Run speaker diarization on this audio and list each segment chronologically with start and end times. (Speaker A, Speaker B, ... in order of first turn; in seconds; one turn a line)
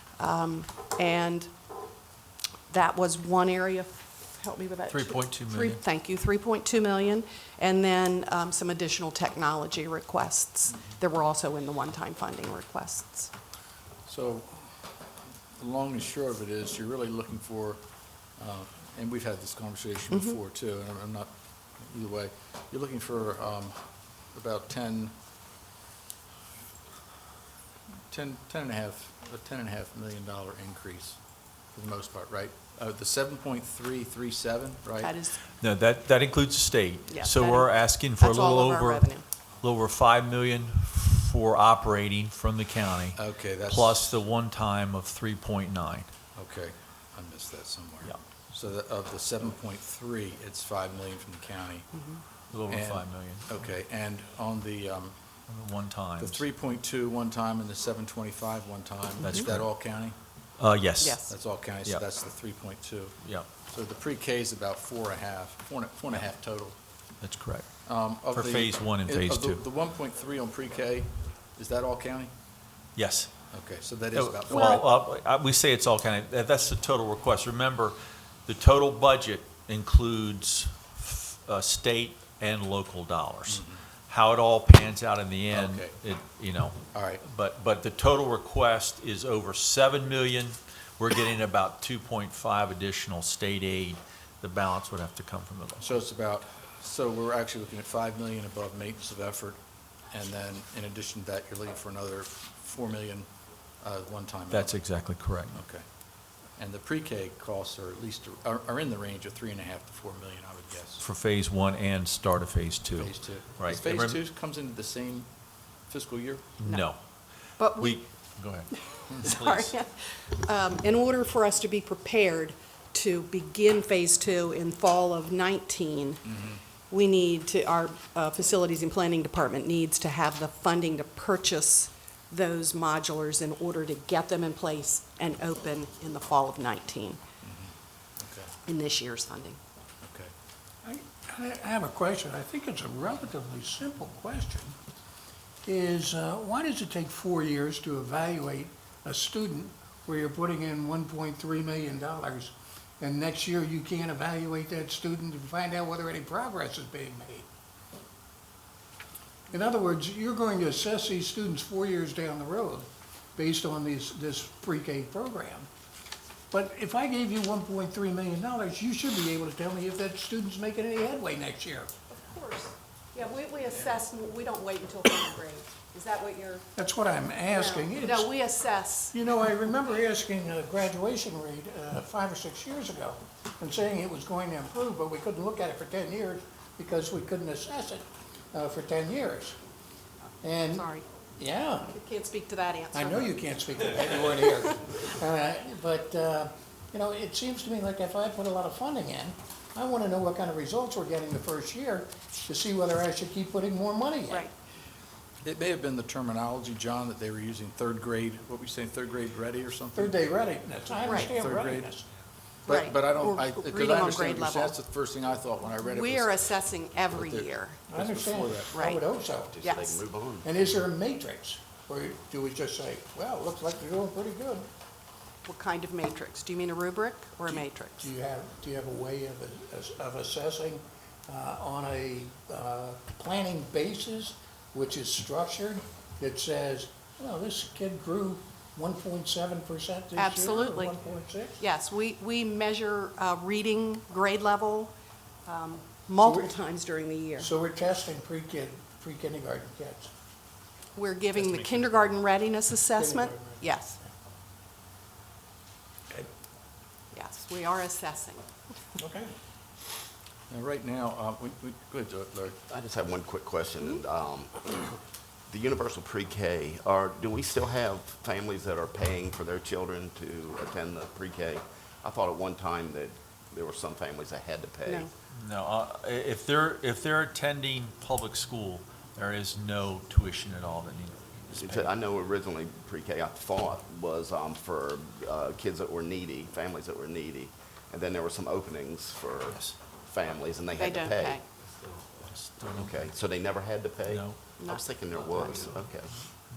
Speaker A: 0.2-1.5
Speaker A: 2.7-13.3
Speaker B: 4.9-5.8
Speaker C: 14.1-14.7
Speaker C: 15.6-17.8
Speaker C: 18.4-23.8
Speaker A: 20.1-20.4
Speaker C: 24.3-25.1
Speaker C: 28.1-31.2
Speaker C: 31.7-35.1
Speaker A: 35.0-35.4
Speaker B: 35.5-39.1
Speaker A: 37.1-39.2
Speaker B: 39.6-46.1
Speaker C: 43.2-44.2
Speaker C: 46.3-51.9
Speaker B: 52.5-53.6
Speaker C: 52.7-55.1
Speaker B: 55.5-56.4
Speaker C: 56.2-60.2
Speaker B: 59.2-59.7
Speaker B: 60.6-61.2
Speaker A: 61.0-61.3
Speaker C: 61.3-66.8
Speaker B: 63.2-63.5
Speaker B: 67.2-67.7
Speaker C: 67.8-72.3
Speaker B: 68.3-69.6
Speaker B: 73.0-73.3
Speaker C: 73.5-74.9
Speaker B: 74.1-95.8
Speaker C: 83.5-83.8
Speaker C: 85.5-86.0
Speaker C: 86.9-87.2
Speaker C: 95.8-99.6
Speaker C: 100.1-103.3
Speaker C: 103.8-105.0
Speaker B: 104.5-105.6
Speaker C: 105.5-105.8
Speaker C: 106.6-111.0
Speaker B: 111.0-114.2
Speaker C: 113.0-115.3
Speaker C: 115.9-116.5
Speaker B: 116.6-117.0
Speaker A: 117.6-118.0
Speaker B: 117.7-119.7
Speaker A: 119.0-126.3
Speaker A: 126.9-137.2
Speaker C: 137.4-138.5
Speaker A: 138.7-139.6
Speaker C: 140.0-140.3
Speaker D: 140.8-144.7
Speaker D: 145.6-157.5
Speaker D: 159.5-165.7
Speaker D: 166.5-171.9
Speaker A: 172.1-176.6
Speaker D: 176.8-178.3
Speaker A: 177.5-179.2
Speaker D: 179.1-189.6
Speaker D: 190.4-191.9
Speaker A: 190.7-191.1
Speaker A: 191.9-193.3
Speaker D: 192.9-204.5
Speaker C: 205.4-210.2
Speaker D: 209.9-212.1
Speaker A: 211.1-211.3
Speaker C: 211.1-211.9
Speaker A: 212.7-214.8
Speaker C: 212.7-218.7
Speaker A: 215.8-217.8
Speaker D: 217.9-219.8
Speaker A: 218.7-219.0
Speaker E: 219.5-220.5
Speaker A: 219.6-220.0
Speaker D: 220.4-224.7
Speaker A: 225.4-228.1
Speaker D: 227.5-241.6
Speaker A: 240.1-241.0
Speaker A: 241.6-244.9
Speaker A: 245.4-247.5
Speaker D: 246.2-246.5
Speaker D: 247.4-250.1
Speaker A: 250.9-254.0
Speaker D: 252.9-253.7
Speaker A: 257.1-258.4
Speaker D: 259.0-259.3
Speaker C: 260.5-262.6
Speaker E: 262.7-265.0
Speaker E: 265.5-275.1
Speaker B: 275.3-281.9
Speaker E: 281.5-291.4
Speaker B: 289.4-289.8
Speaker A: 290.8-291.4
Speaker B: 292.0-293.1
Speaker E: 292.7-296.1
Speaker B: 294.1-294.4
Speaker A: 294.6-295.8
Speaker B: 295.3-296.2